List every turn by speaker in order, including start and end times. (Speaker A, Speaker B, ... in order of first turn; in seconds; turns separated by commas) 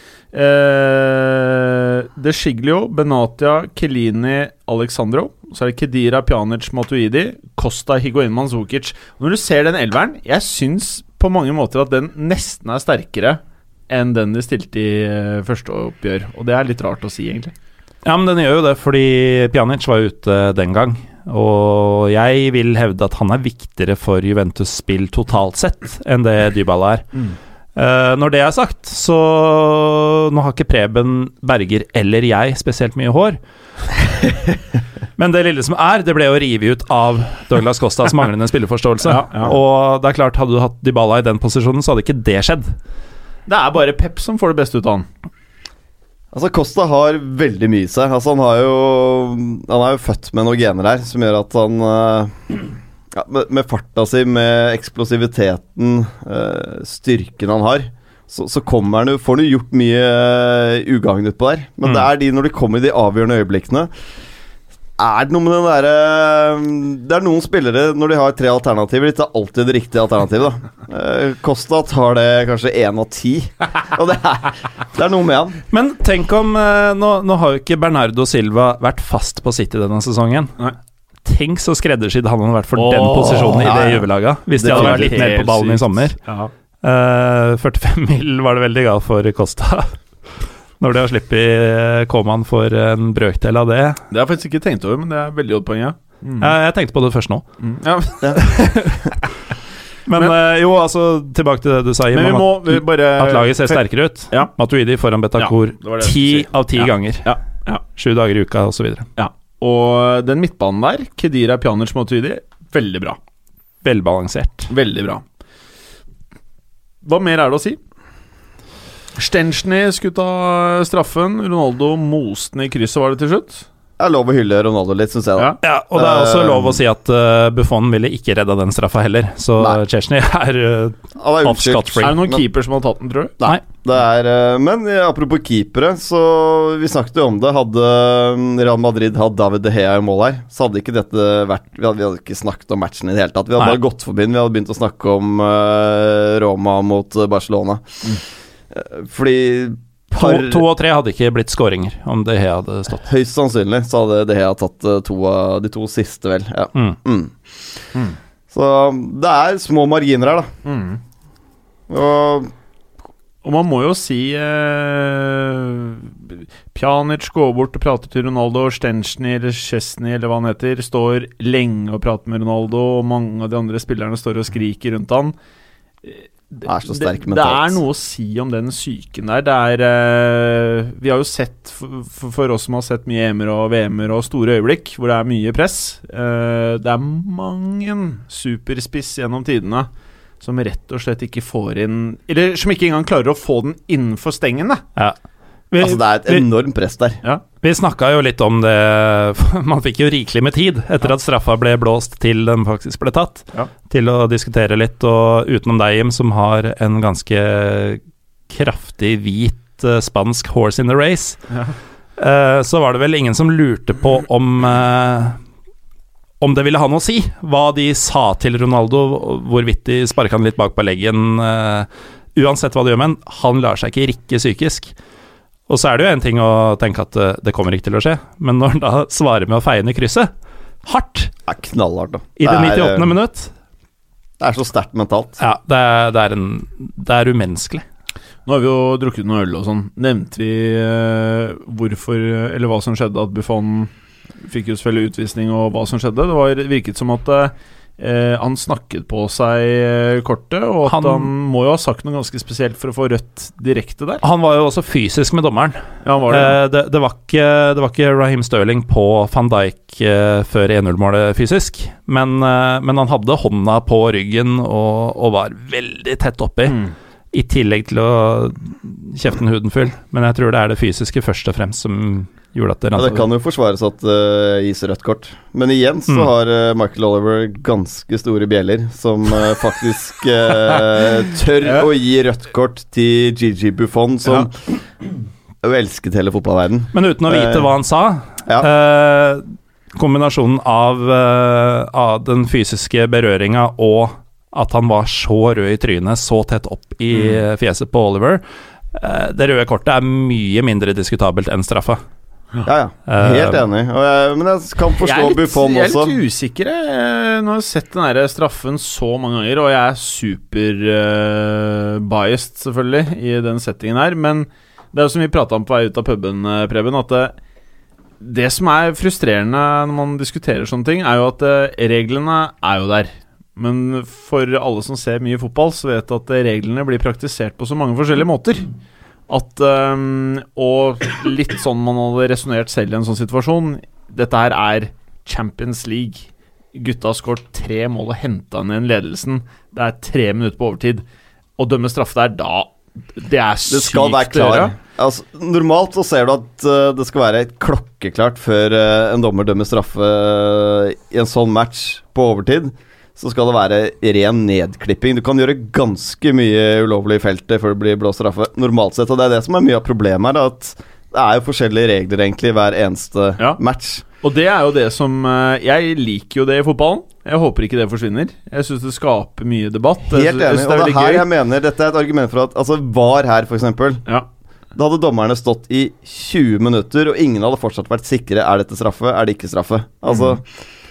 Speaker A: 0.3-17.5, Speaker B: 18.1-27.1, Speaker B: 27.8-33.4, Speaker B: 35.2-42.8, Speaker A: 39.0-39.5, Speaker A: 43.5-45.1, Speaker C: 46.3-52.6, Speaker C: 53.1-63.9, Speaker C: 65.0-75.6, Speaker B: 75.7-80.6, Speaker B: 81.2-86.2, Speaker A: 82.8-83.8, Speaker C: 83.6-85.2, Speaker A: 84.6-86.5, Speaker B: 86.8-90.0, Speaker B: 90.8-94.0, Speaker A: 94.1-96.5, Speaker B: 96.4-97.5, Speaker A: 97.6-98.4, Speaker B: 98.3-99.1, Speaker B: 100.1-107.3, Speaker A: 102.1-104.5, Speaker A: 105.4-107.8, Speaker B: 108.0-109.1, Speaker A: 109.2-113.2, Speaker B: 113.8-114.7, Speaker A: 114.7-115.2, Speaker A: 117.0-117.8, Speaker A: 119.2-123.7, Speaker C: 124.0-126.8, Speaker B: 125.6-132.2, Speaker C: 131.2-132.4, Speaker A: 132.0-133.4, Speaker C: 133.4-148.1, Speaker C: 148.7-150.7, Speaker B: 150.2-153.1, Speaker C: 153.0-157.5, Speaker C: 158.5-160.5, Speaker A: 160.7-161.0, Speaker C: 161.9-162.5, Speaker A: 163.4-175.3, Speaker A: 176.0-189.9, Speaker C: 176.7-177.8, Speaker A: 190.4-194.8, Speaker B: 195.7-196.5, Speaker C: 195.8-197.2, Speaker B: 197.6-211.4, Speaker B: 212.2-215.4, Speaker B: 216.4-224.9, Speaker B: 225.7-230.3, Speaker B: 230.8-231.3, Speaker C: 231.5-233.1, Speaker B: 232.4-233.5, Speaker C: 234.4-235.4, Speaker B: 235.4-237.8, Speaker A: 238.5-243.9, Speaker A: 244.4-254.2, Speaker B: 250.9-251.3, Speaker B: 254.2-266.8, Speaker A: 256.0-256.6, Speaker B: 267.3-273.3, Speaker C: 272.9-284.8, Speaker A: 281.6-281.9, Speaker C: 285.6-287.7, Speaker B: 286.9-298.4, Speaker B: 298.9-302.0, Speaker C: 302.6-306.1, Speaker B: 303.1-303.6, Speaker A: 305.0-317.3, Speaker A: 318.2-328.7, Speaker A: 329.3-341.0, Speaker A: 341.6-344.7, Speaker C: 343.7-364.0, Speaker A: 364.2-371.3, Speaker C: 370.0-374.0, Speaker C: 374.8-380.4, Speaker A: 380.1-380.4